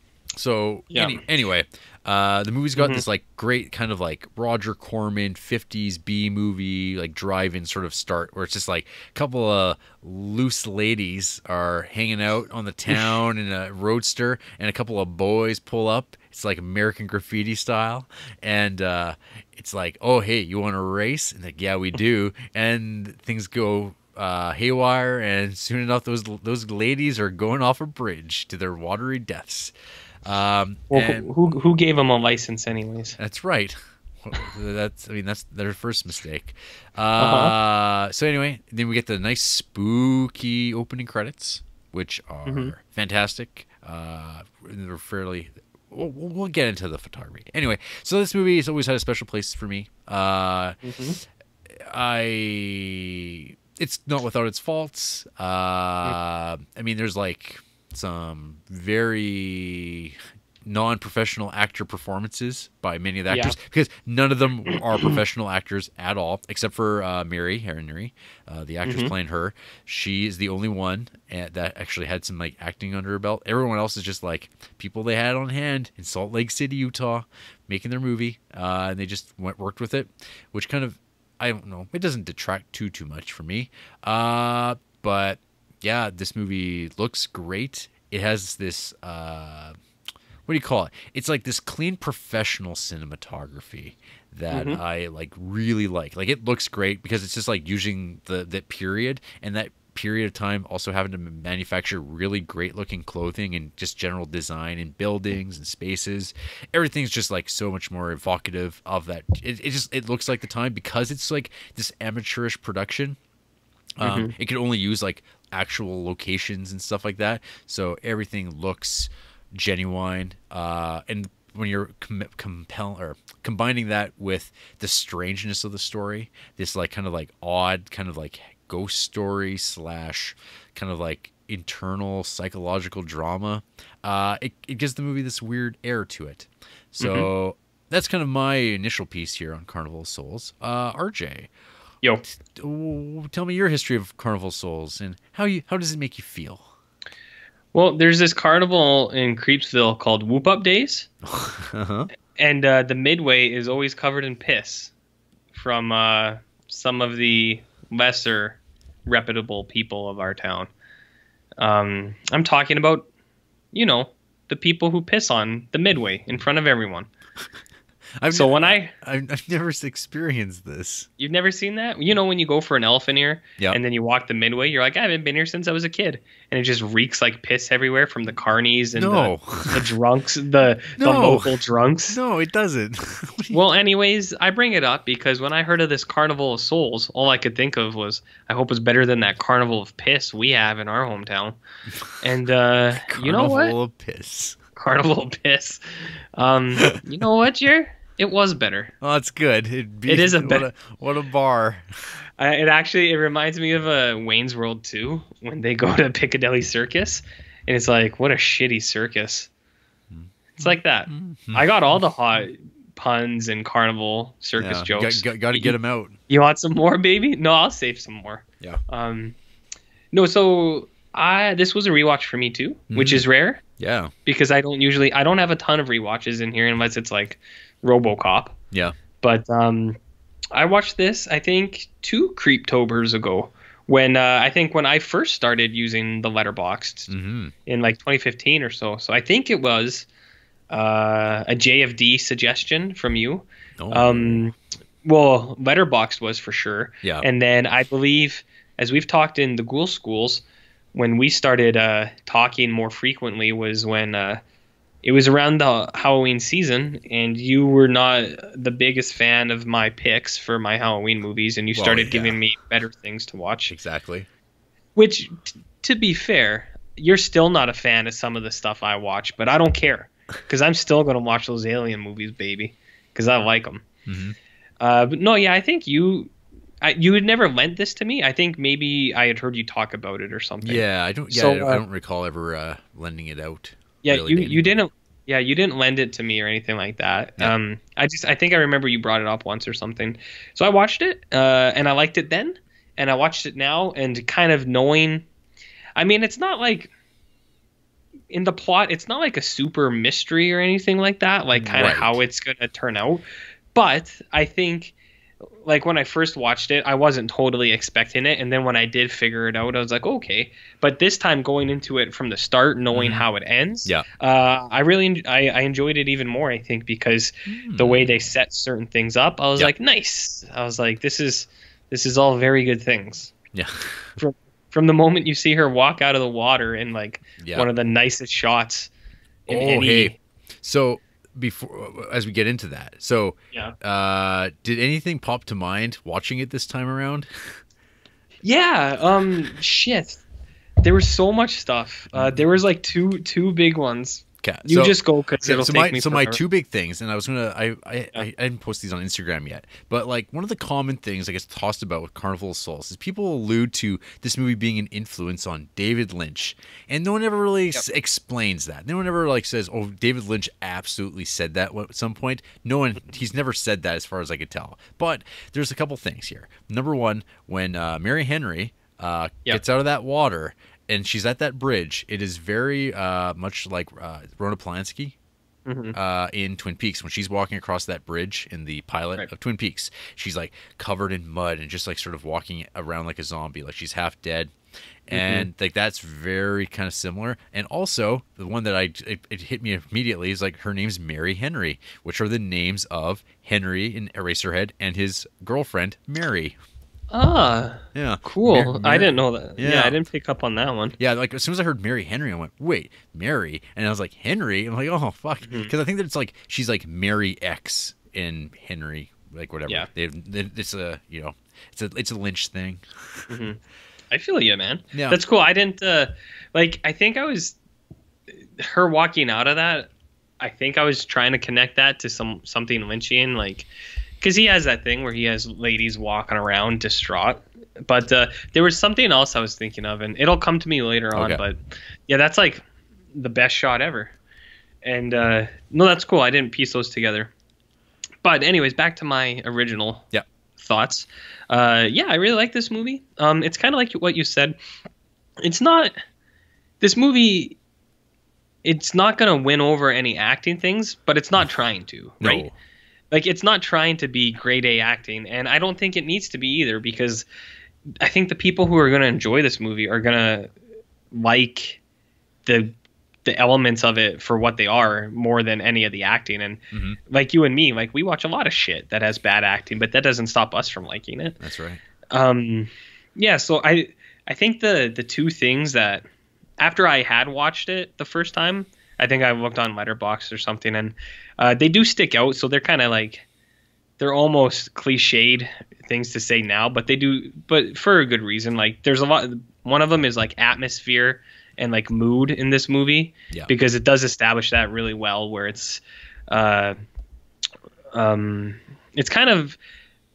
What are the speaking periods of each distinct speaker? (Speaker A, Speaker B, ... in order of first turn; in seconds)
Speaker A: 0.4-29.7, 30.2-31.3, 33.2-50.8, 51.8-89.8, 90.5-113.2, 114.0-141.5, 142.3-146.7, 151.2-152.1, 168.2-171.1, 178.9-179.9, 180.9-183.6, 192.9-194.6, 196.8-197.0, 199.0-201.8, 210.1-212.0, 214.6-216.2, 222.9-223.2, 223.8-224.1, 237.1-237.5, 243.8-244.4, 261.8-262.4, 263.7-264.3, 274.1-274.4, 280.6-284.8, 301.6-302.2, 312.9-313.2, 317.4-318.1, 323.5-324.2, 327.4-327.7, 329.5-337.6, 342.1-342.4, 344.4-375.1, 375.9-384.5, 385.1-396.6, 397.9-400.0, 401.0-413.3, 414.9-415.2, 431.1-431.4, 452.2-452.6, 466.7-467.0, 471.4-471.8
Speaker B: 0.9-1.2, 2.8-3.0, 12.9-13.2, 30.9-33.2, 37.2-37.5, 42.5-42.7, 50.8-51.2, 63.3-63.6, 64.7-65.1, 68.8-69.1, 94.5-94.8, 114.0-114.3, 137.0-137.3, 147.7-151.1, 152.4-154.9, 155.5-160.7, 161.6-163.1, 163.7-167.1, 168.3-168.9, 171.2-182.2, 183.5-191.6, 192.2-193.8, 194.8-195.8, 196.3-198.9, 200.1-200.7, 202.4-209.5, 210.6-215.8, 216.3-219.4, 220.1-223.6, 224.2-228.6, 229.2-230.0, 230.5-237.1, 237.7-240.1, 240.7-254.4, 255.0-263.7, 264.9-273.8, 274.8-281.8, 284.0-295.3, 296.0-296.9, 298.3-304.9, 305.6-323.3, 324.2-328.9, 329.5-330.1, 338.4-340.2, 340.8-346.4, 375.7-375.9, 385.1-385.5, 397.1-400.9, 405.4-405.7, 413.3-413.6, 414.1-417.6, 418.6-423.7, 424.2-434.1, 434.8-437.3, 438.2-440.1, 440.6-444.6, 445.4-445.9, 446.8-447.6, 448.6-452.5, 453.1-457.3, 458.0-460.5, 461.1-461.8, 462.4-471.4, 472.1-476.1, 476.6-483.2, 484.0-496.7, 497.9-499.6